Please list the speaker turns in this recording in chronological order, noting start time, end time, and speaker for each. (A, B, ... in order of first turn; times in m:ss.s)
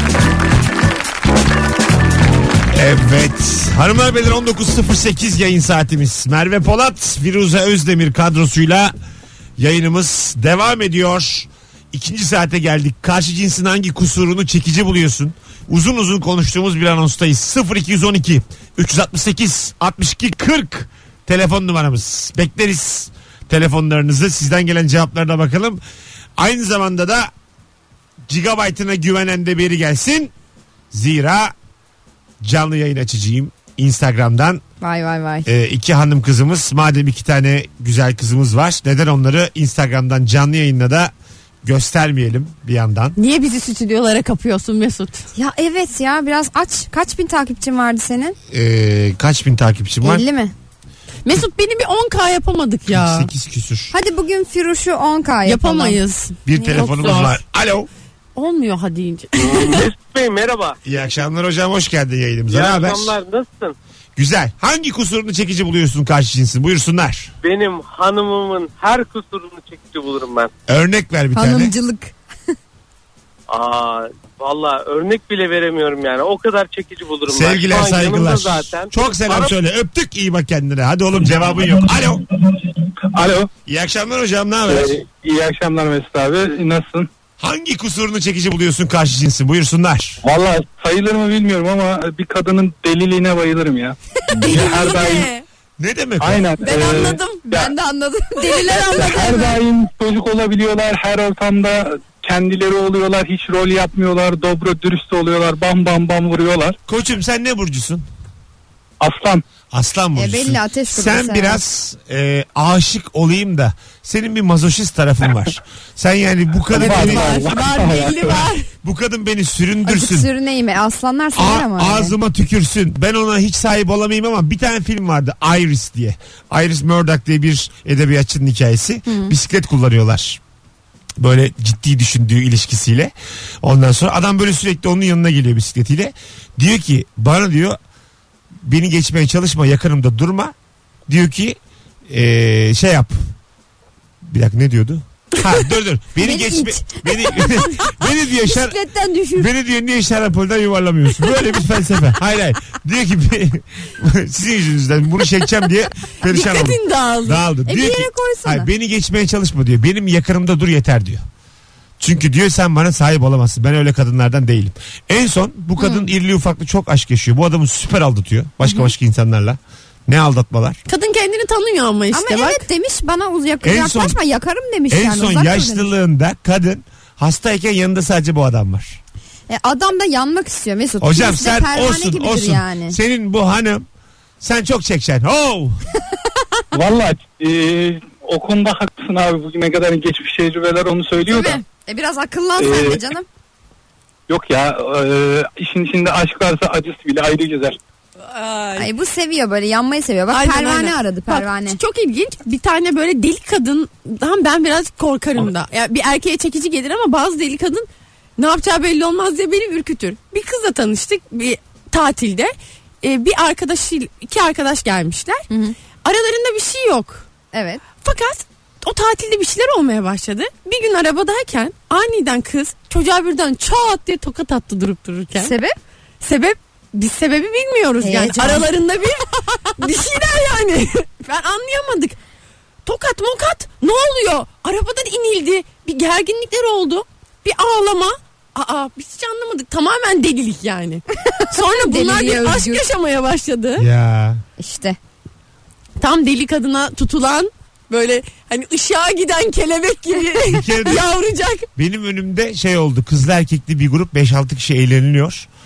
0:02.7-0:08.9 A
0:09.6-0:25.8 A
0:26.4-0:27.3 A
0:28.3-0:30.3 A
0:30.9-0:31.5 A
0:32.4-0:34.6 A
0:34.8-0:35.5 B
0:35.4-0:41.1 A
0:41.6-0:43.2 A
0:43.2-0:45.2 C
0:45.4-0:48.4 B
0:48.5-0:50.2 A
0:50.0-0:50.5 B
0:51.2-0:53.3 C
0:52.9-0:53.9 A
0:53.9-0:56.0 B
0:55.4-0:57.4 C
0:56.4-0:57.9 A
0:56.5-0:57.3 B
0:58.4-0:59.8 C
0:59.4-1:01.1 D
1:00.8-1:03.2 A
1:02.5-1:03.7 D
1:04.2-1:07.3 A
1:07.4-1:10.5 D
1:10.7-1:11.7 A
1:11.3-1:12.1 B
1:13.5-1:19.5 D
1:17.3-1:22.2 A
1:22.4-1:23.5 E
1:23.6-1:24.9 A
1:24.7-1:27.1 E
1:27.4-1:30.2 A
1:30.2-1:35.3 E
1:34.3-1:35.4 C
1:35.8-1:36.5 A
1:36.2-1:37.7 E
1:36.6-1:37.4 C
1:37.4-1:39.6 B
1:38.4-1:39.4 C
1:38.9-1:46.7 E
1:46.9-1:48.0 A
1:49.0-1:49.4 E
1:49.7-1:57.8 A
1:50.2-1:51.6 B
1:56.7-1:58.4 E
1:56.7-1:58.7 C
1:58.8-2:00.3 A
1:59.8-2:02.2 B
2:01.4-2:10.4 A
2:09.1-2:09.3 B
2:11.2-2:17.8 A
2:18.6-2:20.5 A
2:21.1-2:21.6 A
2:22.1-2:23.2 A
2:24.2-2:28.8 A
2:26.2-2:29.5 B
2:29.4-2:41.2 A
2:36.2-2:37.4 C
2:37.6-2:38.7 B
2:42.0-2:50.8 A
2:45.8-2:46.1 B
2:50.8-2:52.6 C
2:52.1-2:55.9 B
2:53.6-2:54.2 A
2:54.9-2:59.0 A
2:59.5-3:03.0 B
3:01.0-3:03.8 A
3:04.4-3:05.9 A
3:06.7-3:11.6 E
3:11.3-3:13.2 B
3:12.6-3:13.0 E
3:14.3-3:17.8 E
3:18.2-3:18.9 C
3:18.8-3:21.8 B
3:20.3-3:35.4 C
3:35.5-3:35.7 B
3:36.0-3:37.2 C
3:37.5-3:37.8 B
3:38.0-3:45.5 C
3:45.4-3:45.7 B
3:46.2-3:52.2 C
3:48.0-3:48.7 B
3:52.8-4:03.8 C
4:01.1-4:02.8 B
4:03.8-4:04.4 A
4:04.6-4:05.0 B
4:06.0-4:11.7 C
4:10.4-4:11.0 A
4:11.8-4:15.5 A